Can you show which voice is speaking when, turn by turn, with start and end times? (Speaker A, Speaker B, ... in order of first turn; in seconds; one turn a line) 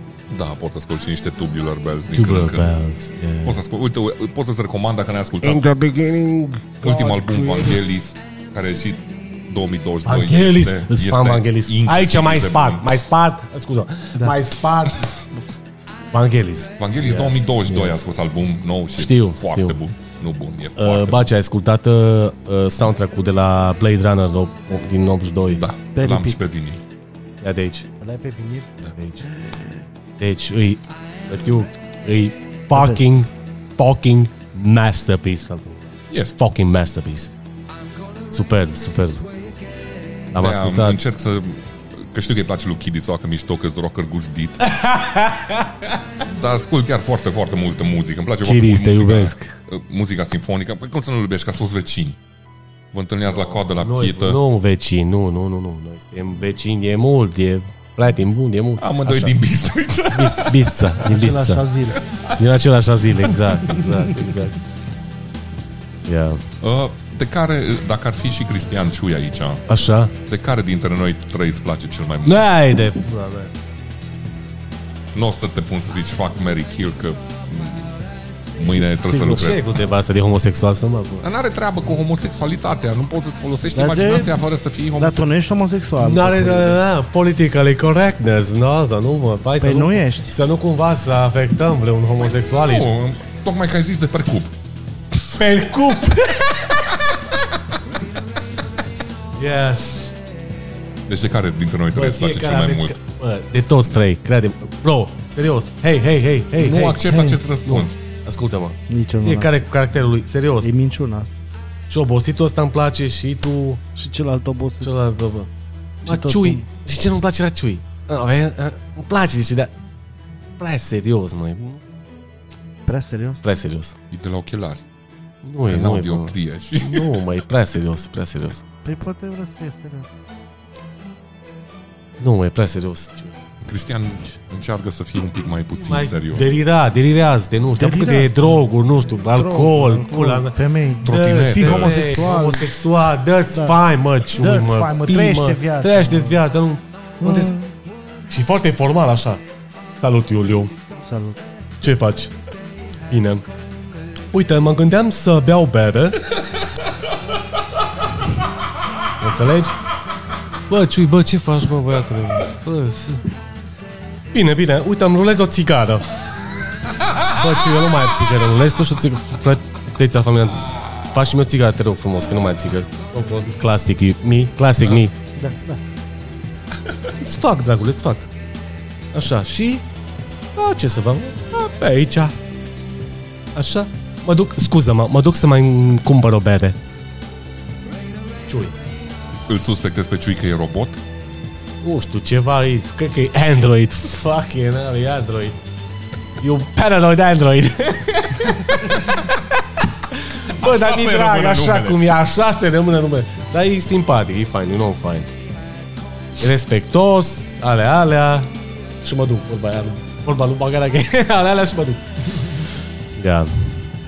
Speaker A: 0.3-2.7
Speaker B: 2.1-3.6
Speaker A: 3.4-5.8
Speaker B: 5.4-7.8
Speaker A: 6.8-12.9
Speaker B: 10.0-15.1
Speaker B: 16.1-18.1
Speaker A: 16.8-21.3
Speaker B: 19.0-19.8
Speaker B: 20.8-25.6
Speaker A: 25.5-26.8
Speaker C: 25.9-26.4
Speaker B: 27.4-27.9
Speaker C: 28.0-28.7
Speaker B: 28.9-29.5
Speaker B: 30.2-37.3
Speaker C: 32.7-33.1
Speaker A: 36.1-36.4
Speaker B: 38.3-39.3
Speaker B: 40.3-41.0
Speaker A: 40.4-44.7
Speaker B: 44.6-45.9
Speaker A: 46.2-52.2
Speaker B: 48.4-49.5
Speaker A: 52.9-54.4
Speaker B: 53.3-59.4
Speaker A: 58.8-60.9
Speaker B: 60.1-61.6
Speaker C: 61.0-62.0
Speaker A: 61.9-62.6
Speaker B: 62.4-64.6
Speaker B: 66.0-66.4
Speaker A: 66.6-69.6
Speaker B: 69.7-70.1
Speaker A: 70.2-72.5
Speaker B: 72.2-73.5
Speaker A: 75.1-78.0
Speaker A: 78.6-79.6
Speaker B: 78.6-81.2
Speaker A: 81.2-85.3
Speaker C: 83.7-84.3
Speaker C: 85.0-86.8
Speaker B: 86.0-92.9
Speaker C: 89.6-90.3
Speaker A: 92.4-94.5
Speaker B: 95.3-97.2
Speaker B: 99.3-100.1
Speaker A: 101.1-103.0
Speaker B: 101.9-110.7
Speaker A: 106.5-108.0
Speaker C: 108.9-109.5
Speaker C: 110.6-111.3
Speaker B: 111.9-113.8
Speaker C: 114.0-114.9
Speaker B: 114.8-115.5
Speaker C: 116.0-116.7
Speaker B: 116.0-119.7
Speaker B: 120.6-121.8
Speaker C: 122.8-123.4
Speaker B: 123.4-124.0
Speaker A: 124.1-124.8
Speaker B: 125.4-128.6
Speaker A: 125.7-127.3
Speaker C: 128.8-130.1
Speaker B: 132.2-133.4
Speaker A: 133.6-136.4
Speaker B: 135.9-147.6
Speaker C: 137.8-138.7
Speaker C: 139.3-142.7
Speaker A: 141.0-141.9
Speaker C: 143.5-143.8
Speaker C: 144.3-146.4
Speaker C: 147.2-147.7
Speaker B: 148.3-149.4
Speaker B: 150.0-150.7
Speaker C: 151.0-151.4
Speaker B: 151.8-152.3
Speaker B: 153.1-153.4
Speaker B: 154.3-156.4
Speaker B: 159.2-159.8
Speaker B: 160.7-163.2
Speaker B: 164.3-166.1
Speaker B: 167.2-175.1
Speaker C: 175.4-175.8
Speaker B: 177.1-178.3
Speaker B: 179.1-179.8
Speaker B: 180.6-182.3
Speaker B: 183.5-186.8
Speaker B: 188.5-188.8
Speaker A: 189.4-191.0
Speaker B: 191.8-195.6
Speaker B: 196.4-199.5
Speaker B: 200.1-205.3
Speaker A: 200.5-202.2
Speaker B: 206.4-208.5
Speaker B: 209.0-212.2
Speaker B: 213.2-213.8